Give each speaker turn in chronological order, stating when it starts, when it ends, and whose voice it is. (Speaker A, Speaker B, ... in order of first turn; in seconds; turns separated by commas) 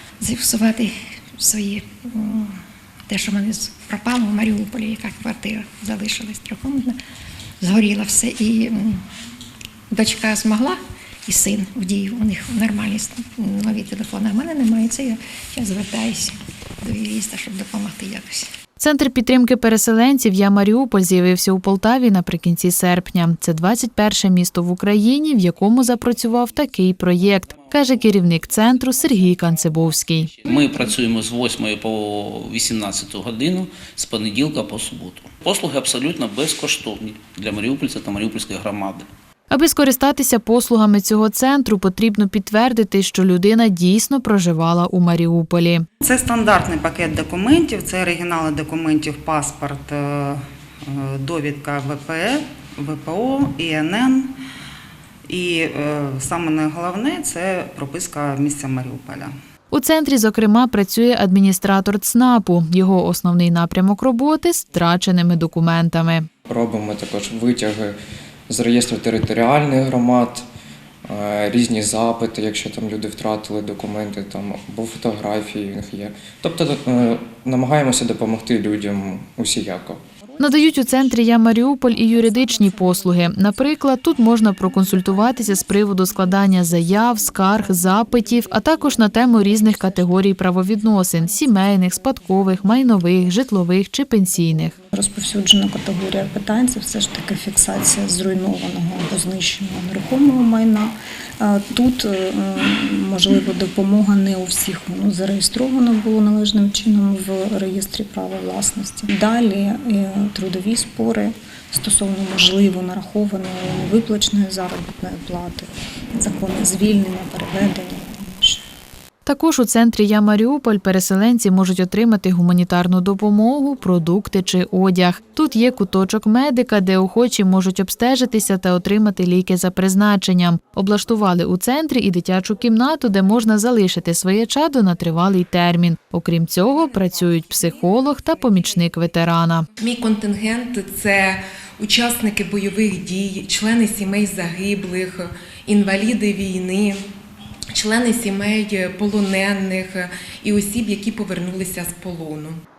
Speaker A: 0.2-2.5, Speaker A: 3.1-7.0, Speaker A: 7.6-9.0, Speaker A: 9.9-18.5, Speaker B: 18.8-30.3, Speaker C: 30.4-39.0, Speaker B: 39.5-45.8, Speaker D: 46.0-54.3, Speaker D: 55.3-59.3, Speaker B: 59.7-66.3, Speaker E: 66.5-68.0, Speaker E: 68.5-70.5, Speaker E: 71.0-80.0, Speaker B: 80.4-94.7, Speaker F: 94.9-118.6, Speaker B: 119.2-139.7, Speaker G: 139.8-147.0, Speaker G: 147.7-152.6